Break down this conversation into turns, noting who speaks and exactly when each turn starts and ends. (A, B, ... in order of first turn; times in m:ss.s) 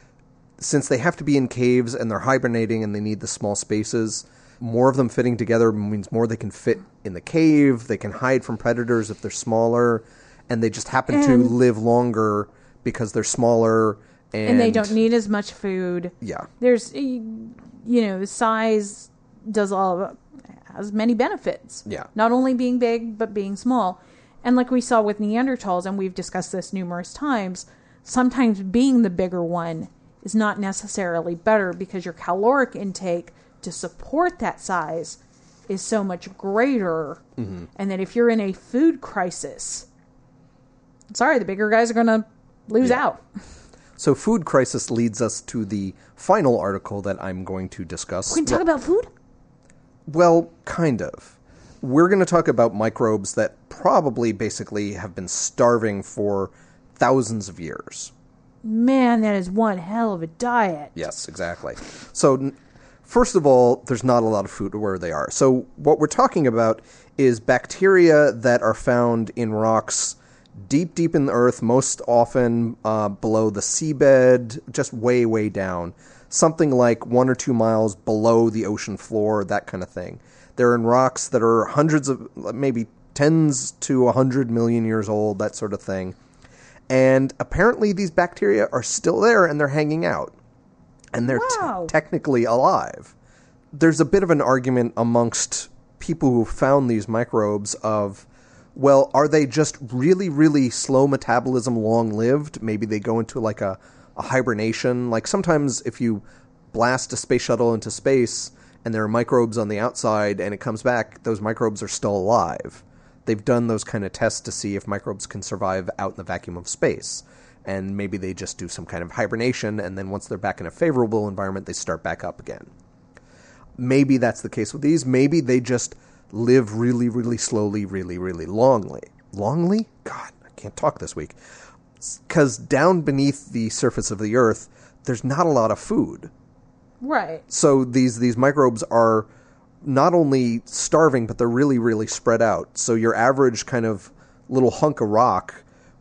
0:00.6-0:15.0 A
0:11.1-0:11.5 B
0:14.4-0:37.2 B
0:16.2-0:16.5 A
0:37.4-0:37.7 A
0:37.8-0:39.8 B
0:41.1-0:43.2 B
0:44.0-0:48.6 A
0:48.3-0:49.1 B
0:50.1-0:58.1 A
0:58.6-1:01.0 B
1:01.0-1:26.2 A
1:26.9-1:30.4 A
1:31.1-1:33.1 A
1:31.3-1:31.9 B
1:33.7-2:02.7 A
2:03.8-2:11.4 A
2:12.0-2:16.3 A
2:17.0-2:17.4 B
2:17.5-2:19.3 A
2:19.8-2:25.6 A